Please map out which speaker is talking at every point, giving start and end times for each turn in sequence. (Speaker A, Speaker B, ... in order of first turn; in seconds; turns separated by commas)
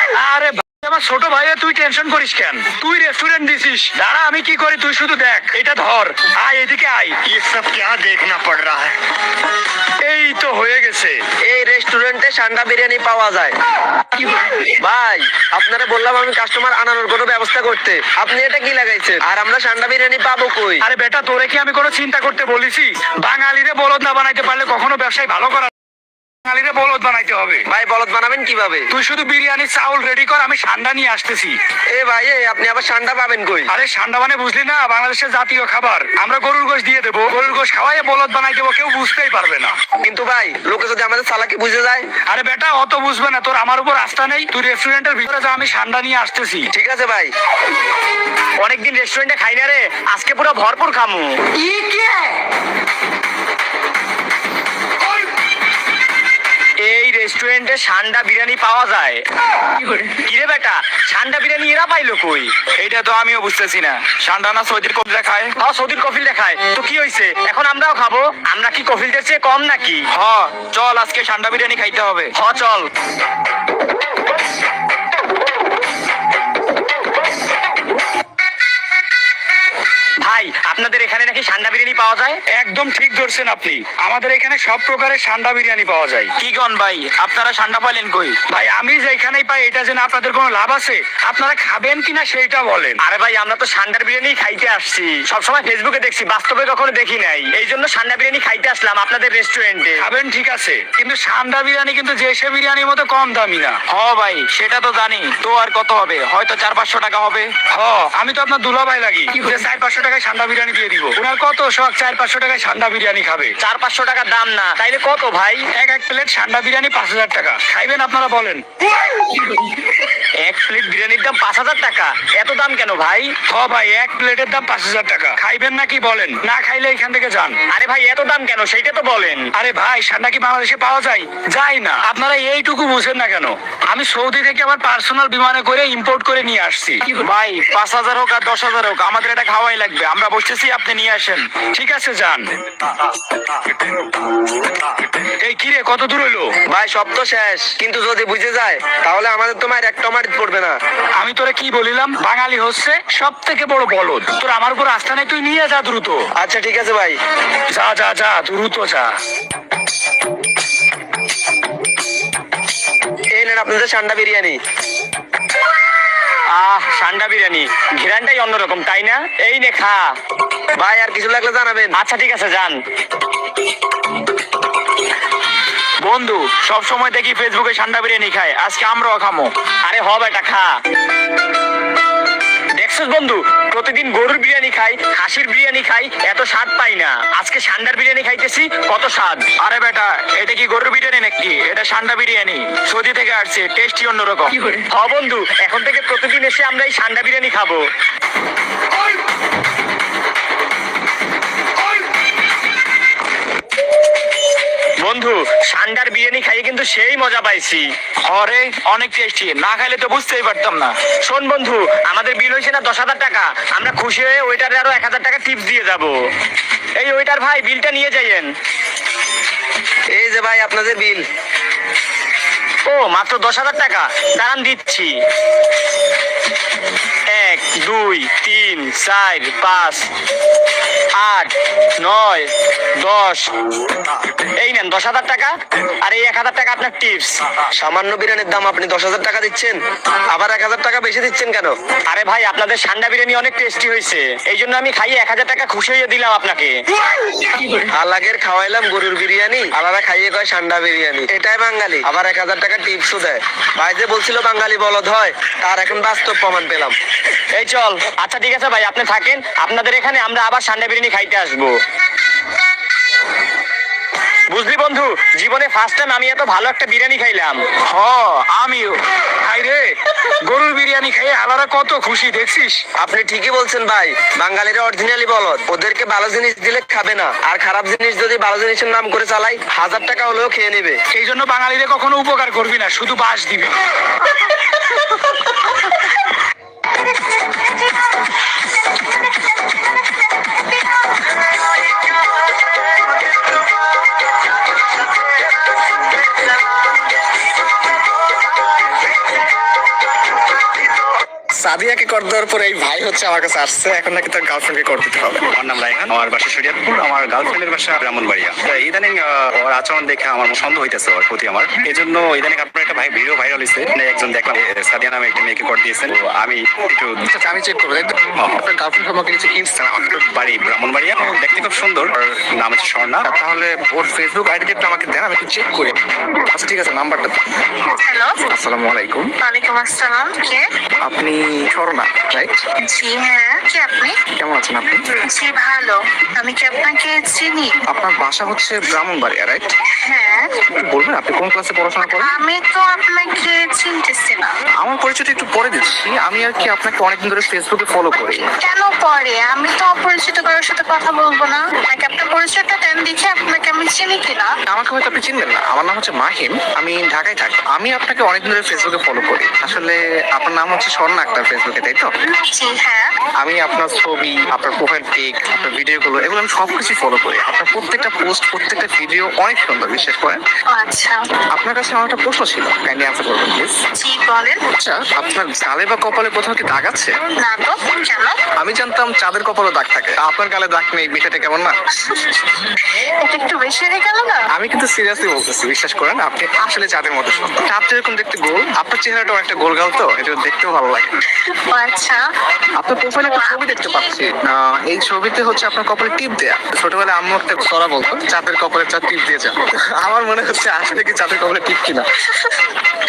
Speaker A: 0.1-7.2, Speaker A: 10.0-11.2, Speaker B: 11.4-13.5, Speaker B: 14.8-20.8, Speaker A: 20.8-25.7, Speaker A: 26.4-27.6, Speaker B: 27.7-28.9, Speaker A: 28.9-31.6, Speaker B: 31.9-33.7, Speaker A: 33.7-39.7, Speaker B: 40.0-42.0, Speaker A: 42.3-46.7, Speaker B: 46.7-47.3, Speaker C: 48.6-51.3, Speaker C: 56.8-59.2, Speaker C: 60.2-62.5, Speaker A: 62.8-65.5, Speaker C: 65.6-70.0, Speaker A: 70.1-72.3, Speaker C: 72.4-72.9, Speaker C: 80.2-82.4, Speaker A: 82.5-93.0, Speaker C: 93.0-100.0, Speaker A: 100.0-113.5, Speaker C: 113.6-115.6, Speaker A: 115.7-118.6, Speaker C: 120.4-123.3, Speaker A: 123.5-127.6, Speaker C: 127.7-129.5, Speaker A: 129.6-142.4, Speaker A: 145.4-146.5, Speaker B: 146.7-150.8, Speaker A: 151.2-156.3, Speaker B: 156.3-157.2, Speaker A: 157.7-159.1, Speaker B: 163.3-164.6, Speaker C: 166.5-170.1, Speaker B: 170.8-171.9, Speaker C: 171.9-172.7, Speaker A: 176.0-179.5, Speaker C: 179.8-180.7, Speaker C: 182.8-189.4, Speaker A: 189.6-194.5, Speaker C: 194.9-197.8, Speaker C: 205.0-207.8, Speaker A: 208.2-210.9, Speaker C: 211.3-216.2, Speaker C: 217.0-218.5, Speaker B: 220.1-221.2, Speaker C: 222.9-225.1, Speaker C: 227.3-230.0, Speaker C: 231.2-231.5, Speaker C: 232.0-232.5, Speaker C: 233.0-233.4, Speaker C: 234.6-237.3, Speaker B: 237.8-239.8, Speaker B: 240.3-241.7, Speaker C: 242.1-246.7, Speaker B: 247.9-256.9, Speaker C: 257.5-261.7, Speaker C: 264.5-267.6, Speaker A: 267.9-269.9, Speaker A: 270.4-272.8, Speaker B: 273.0-281.0, Speaker A: 281.1-283.7, Speaker D: 301.6-305.4, Speaker E: 305.5-317.2, Speaker D: 317.2-320.0, Speaker E: 320.0-323.2, Speaker D: 323.2-326.0, Speaker D: 326.5-327.4, Speaker F: 327.9-328.4, Speaker D: 328.4-329.3, Speaker F: 329.4-330.6, Speaker D: 331.0-332.6, Speaker F: 332.8-334.1, Speaker D: 334.4-335.1, Speaker F: 335.3-337.8, Speaker D: 337.9-339.7, Speaker F: 340.1-340.5, Speaker D: 340.7-342.3, Speaker F: 342.0-344.5, Speaker D: 344.8-348.4, Speaker F: 348.6-354.5, Speaker D: 354.7-362.1, Speaker F: 362.3-363.1, Speaker D: 363.4-370.4, Speaker F: 370.7-371.2, Speaker D: 371.6-373.8, Speaker F: 373.9-374.6, Speaker D: 374.7-377.1, Speaker F: 377.4-378.4, Speaker D: 378.6-381.7, Speaker F: 382.0-382.3, Speaker F: 383.2-384.4, Speaker D: 384.5-391.2, Speaker F: 391.4-392.2, Speaker D: 392.8-402.0, Speaker F: 393.2-393.6, Speaker F: 402.4-402.6